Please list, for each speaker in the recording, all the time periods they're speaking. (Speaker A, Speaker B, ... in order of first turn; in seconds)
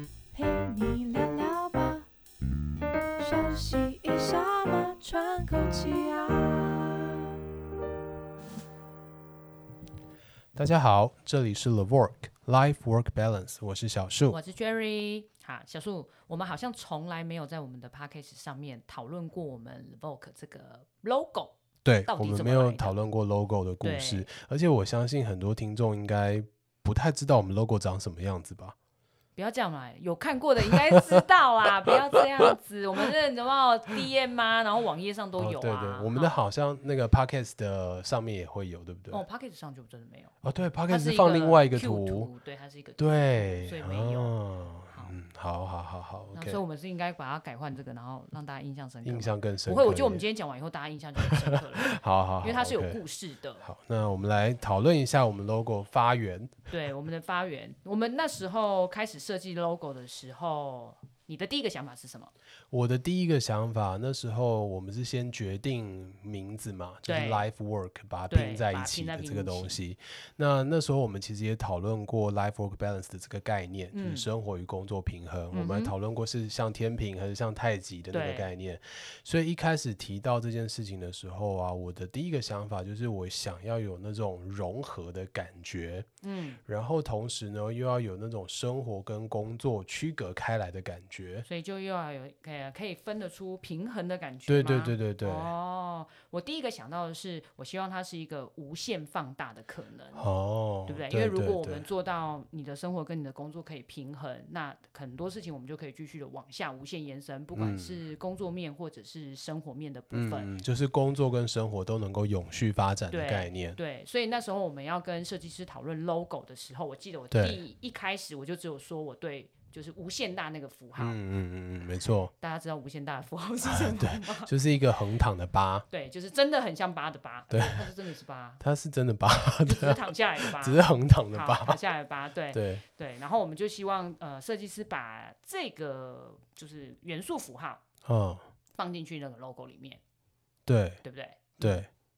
Speaker A: 0.3-2.1, 3.2-7.4
Speaker B: 10.6-14.4, 21.8-28.8, 35.4-39.2, 40.4-42.3, 43.0-46.6, 49.0-50.2, 51.3-53.0, 53.6-56.5, 62.7-86.1, 86.7-91.5, 94.5-95.5, 100.2-101.9, 107.5-108.0, 110.1-113.8, 117.3-117.6, 121.0-122.3, 123.6-125.9, 127.5-127.9, 128.6-131.8, 132.5-132.8, 138.1-138.4, 140.7-141.0, 141.6-141.9
Speaker C: 14.3-23.0, 23.8-24.3, 29.4-36.4, 39.1-40.4, 40.9-44.4, 46.3-53.6, 56.7-62.3, 67.0-67.5, 68.3-69.8, 73.9-74.3, 75.5-75.9, 78.1-78.5, 86.2-86.6, 91.5-100.3, 100.9-110.5, 113.1-121.2, 122.4-124.5, 125.9-128.6, 129.6-137.8, 138.8-140.0, 141.0-141.6